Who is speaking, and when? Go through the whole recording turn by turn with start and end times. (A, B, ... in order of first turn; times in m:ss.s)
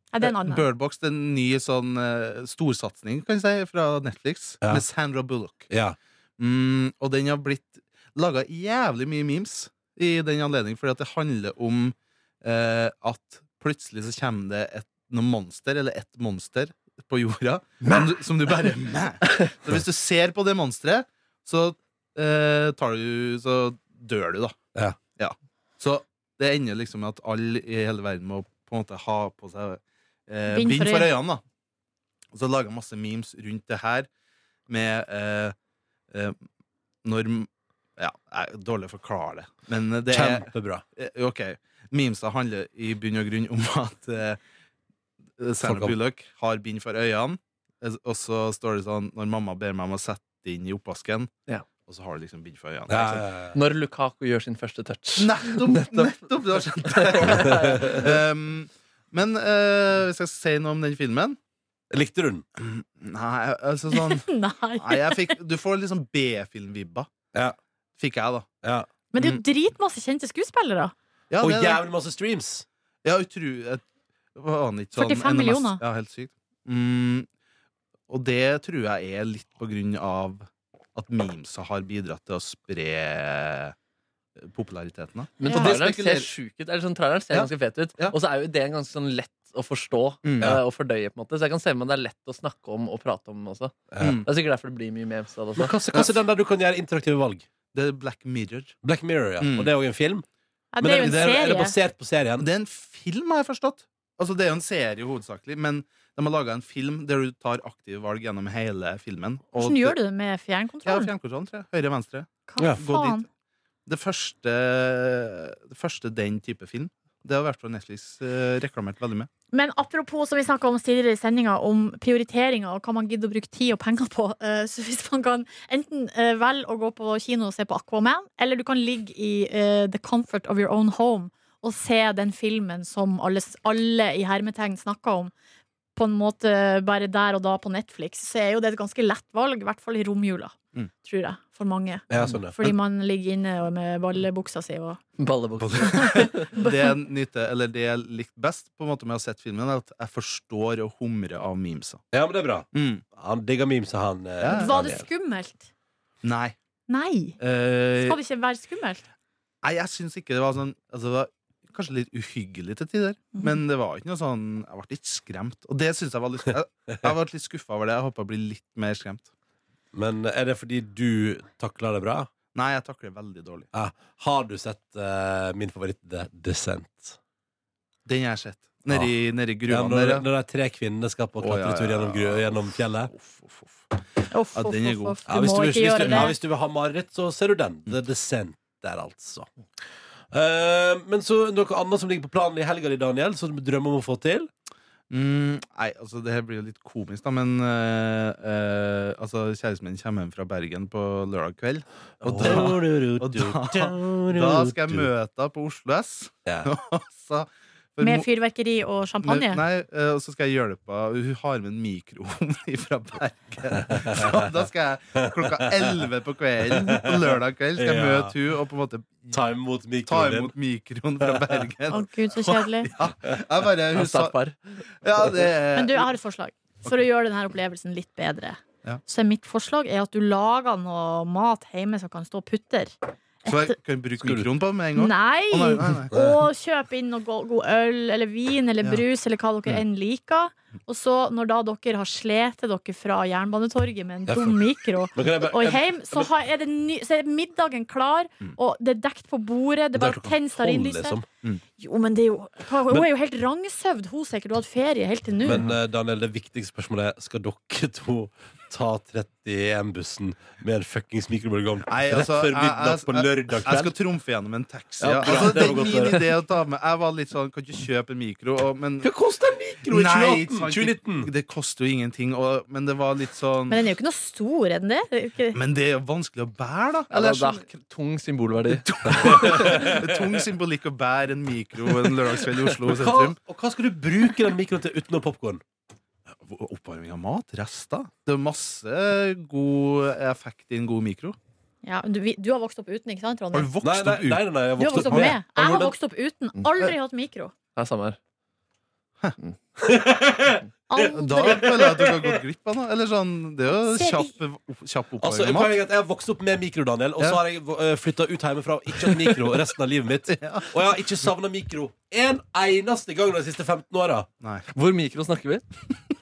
0:00.1-0:00.7 A
0:00.2-0:05.7 B
0:05.7-0:06.0 C
0:06.4-0:24.6 B
0:25.2-0:31.4 B
0:30.5-0:31.1 A
0:32.3-0:34.1 B
0:34.7-0:35.6 B
0:36.1-0:36.4 B
0:37.0-0:44.4 B
0:40.1-0:40.8 C
0:45.4-0:51.3 B
0:45.6-0:46.0 C
0:51.8-0:53.2 B
0:52.9-0:53.6 C
0:53.5-0:56.1 D
0:55.2-1:01.4 B
0:56.8-0:58.1 D
0:57.6-0:58.0 C
1:01.9-1:02.4 C
1:02.6-1:07.1 B
1:03.9-1:05.4 A
1:08.0-1:08.5 B
1:08.6-1:08.9 C
1:09.1-1:10.9 A
1:09.2-1:09.4 B
1:11.3-1:11.8 B
1:11.4-1:12.6 C
1:13.0-1:13.8 B
1:14.4-1:17.3 B
1:15.0-1:15.8 A
1:18.1-1:23.8 B
1:24.4-1:26.3 B
1:25.4-1:35.7 D
1:25.4-1:25.8 A
1:27.3-1:28.2 B
1:30.2-1:30.6 B
1:33.9-1:34.2 C
1:34.0-1:34.3 B
1:35.6-1:37.4 C
1:37.7-1:38.8 B
1:38.8-1:40.2 C
1:39.4-1:39.7 B
1:40.7-1:41.8 A
1:40.8-1:42.5 C
1:42.4-1:50.0 B
1:49.6-1:51.1 A
1:50.8-1:53.2 B
1:52.5-1:53.3 A
1:53.9-1:59.3 B
1:59.5-2:15.3 A
2:16.0-2:25.0 A
2:22.1-2:22.7 C
2:25.2-2:26.5 D
2:25.6-2:32.0 B
2:25.9-2:26.9 A
2:32.1-2:35.0 C
2:32.7-2:33.0 B
2:34.4-2:34.9 B
2:34.5-2:35.7 A
2:36.2-2:36.6 B
2:36.9-2:37.4 A
2:37.4-2:38.2 B
2:38.0-2:39.0 A
2:39.6-2:49.3 B
2:49.9-2:52.3 C
2:52.5-2:53.7 B
2:53.7-2:57.2 C
2:58.0-3:00.3 B
2:59.7-3:03.1 C
3:01.4-3:04.0 B
3:04.3-3:06.4 A
3:04.5-3:05.2 B
3:05.3-3:09.5 C
3:10.3-3:14.5 C
3:15.1-3:28.3 B
3:22.2-3:25.1 C
3:28.0-3:29.6 A
3:29.2-3:39.4 B
3:33.9-3:34.3 C
3:35.2-3:35.9 C
3:36.7-3:38.4 C
3:39.3-3:40.5 C
3:40.1-3:44.4 B
3:41.2-3:41.6 C
3:41.9-3:42.9 A
3:43.9-3:44.6 D
3:45.0-3:46.1 B
3:45.7-3:53.8 A
3:53.5-3:56.2 B
3:54.2-3:54.5 C
3:55.0-4:11.2 A
3:56.1-3:56.4 C
4:04.3-4:04.6 C
4:05.1-4:06.3 C
4:10.0-4:11.3 C
4:11.8-4:15.6 A
4:15.4-4:23.9 C
4:15.5-4:15.7 B
4:21.8-4:29.1 B
4:25.0-4:26.3 C
4:29.0-4:31.3 C
4:29.8-4:33.8 B
4:33.7-4:35.6 A
4:35.5-4:37.6 B
4:37.1-4:39.9 D
4:38.8-4:43.4 B
4:39.2-4:40.2 C
4:42.8-4:45.6 C
4:46.4-4:51.4 B
4:51.8-4:53.7 A
4:53.5-4:55.4 B
4:53.8-4:56.0 C
4:54.8-4:57.5 A
4:57.8-4:58.2 D
4:59.8-5:00.7 C
5:00.9-5:01.7 A
5:01.0-5:05.8 B
5:01.3-5:02.4 C
5:03.8-5:04.3 A
5:05.2-5:14.3 C
5:09.0-5:09.4 B
5:10.3-5:10.7 B
5:14.7-5:15.6 D